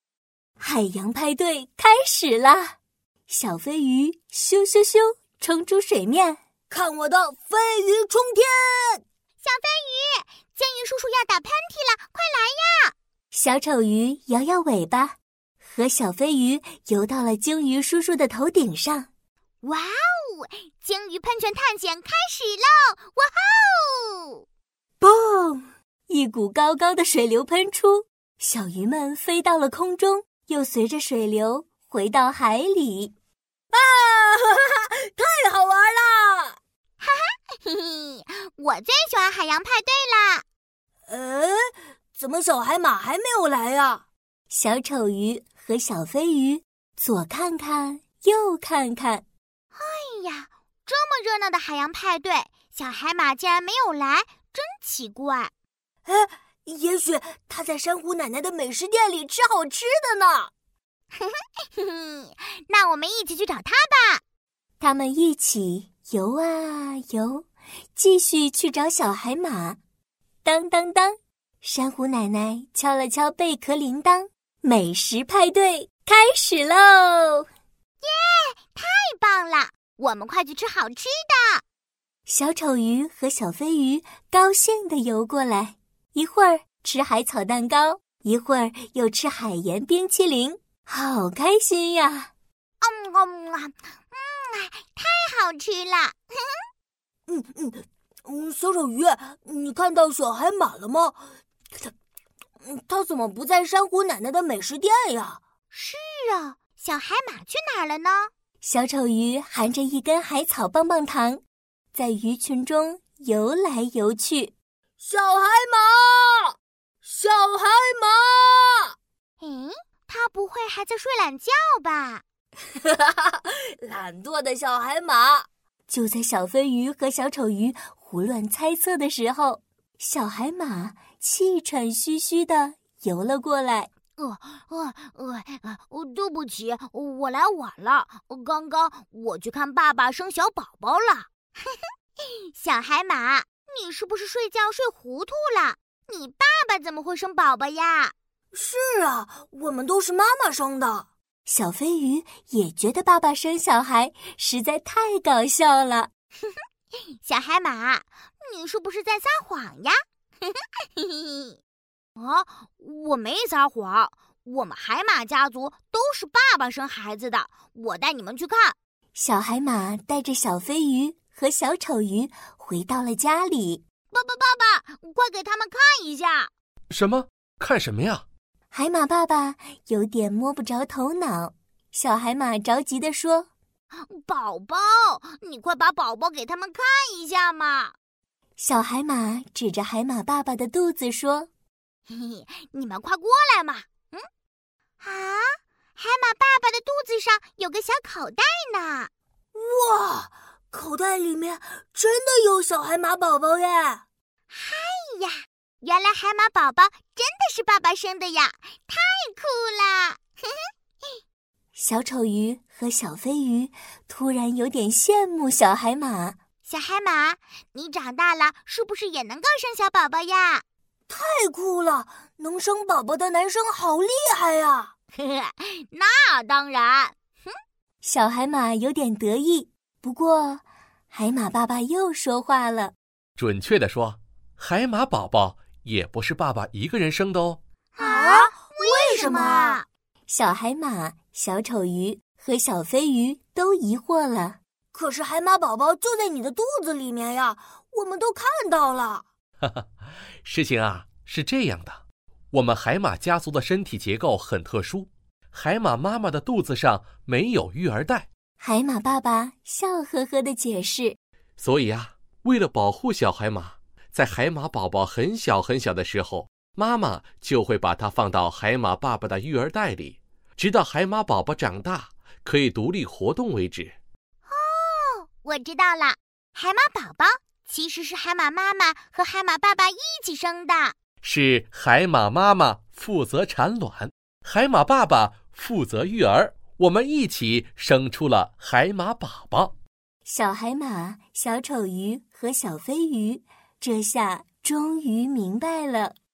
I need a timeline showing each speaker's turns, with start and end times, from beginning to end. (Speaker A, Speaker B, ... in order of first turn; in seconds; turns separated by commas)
Speaker A: 0.6-2.8, Speaker A: 3.3-6.4, Speaker B: 6.7-9.0, Speaker C: 9.4-12.9, Speaker A: 13.3-19.1, Speaker C: 19.6-24.4, Speaker B: 25.0-25.6, Speaker A: 26.1-33.1, Speaker B: 33.7-36.6, Speaker C: 37.0-40.4, Speaker B: 41.1-44.0, Speaker A: 44.5-49.2, Speaker C: 49.7-55.5, Speaker B: 56.0-60.5, Speaker C: 61.2-64.2, Speaker A: 64.8-69.8, Speaker A: 70.4-77.5, Speaker C: 78.0-81.6, Speaker A: 82.3-92.3, Speaker C: 92.8-96.6, Speaker B: 97.3-101.2, Speaker B: 102.6-105.4, Speaker C: 105.7-108.3, Speaker A: 108.6-111.4, Speaker A: 111.9-114.5, Speaker B: 115.0-118.9, Speaker C: 119.4-122.2, Speaker B: 122.8-125.5, Speaker A: 125.9-133.9, Speaker C: 134.2-148.1, Speaker B: 148.5-151.1, Speaker A: 151.5-156.1, Speaker C: 157.2-161.6, Speaker C: 162.2-168.8, Speaker A: 169.2-173.8, Speaker C: 174.1-176.5, Speaker D: 176.9-178.2, Speaker A: 178.7-183.5, Speaker C: 184.1-187.9, Speaker A: 188.6-191.5, Speaker C: 192.1-194.2, Speaker C: 195.0-199.1, Speaker B: 199.5-204.0, Speaker C: 204.5-211.1, Speaker A: 211.8-216.4, Speaker C: 216.7-220.6, Speaker B: 221.1-224.9, Speaker C: 225.2-227.5, Speaker A: 228.0-232.9, Speaker D: 233.4-237.6, Speaker C: 238.0-239.8, Speaker B: 238.0-239.8, Speaker A: 240.3-244.6, Speaker B: 244.9-249.2, Speaker D: 250.4-258.3, Speaker A: 258.6-261.2, Speaker D: 261.6-274.0, Speaker C: 274.5-280.9, Speaker D: 281.2-289.7, Speaker A: 290.2-296.1